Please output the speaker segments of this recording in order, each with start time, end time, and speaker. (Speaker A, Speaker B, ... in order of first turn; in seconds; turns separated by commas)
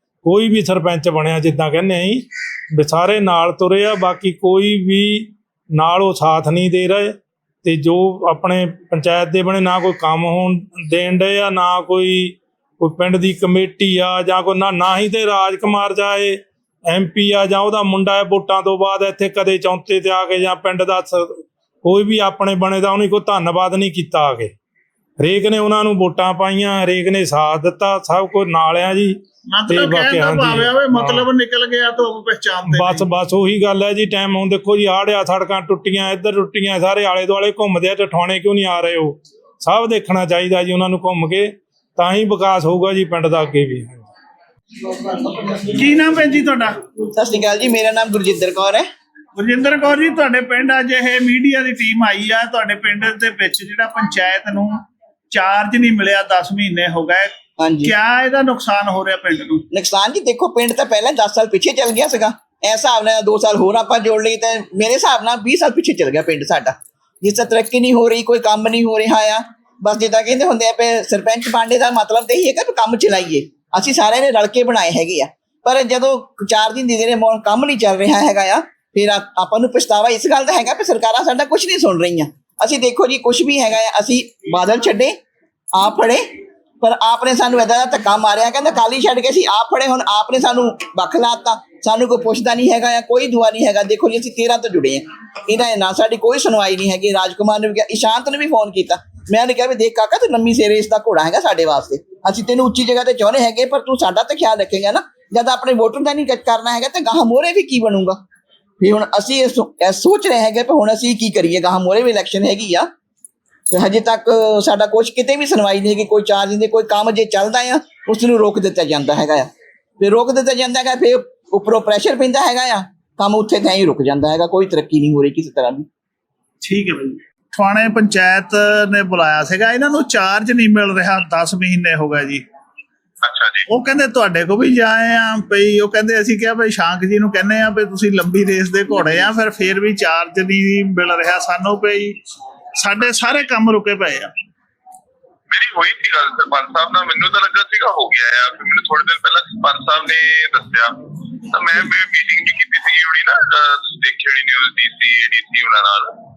Speaker A: 0.2-24.5, Speaker A: 25.2-31.3, Speaker B: 29.5-33.1, Speaker A: 32.7-44.0, Speaker B: 45.4-46.8, Speaker C: 47.1-48.9, Speaker B: 49.4-59.6, Speaker C: 57.6-57.9, Speaker C: 59.7-85.2, Speaker C: 85.7-108.2, Speaker C: 108.8-112.9, Speaker C: 113.7-125.9, Speaker B: 126.6-132.4, Speaker D: 133.2-133.7, Speaker B: 133.7-142.2, Speaker B: 142.8-144.3, Speaker D: 143.0-143.5, Speaker D: 145.5-156.2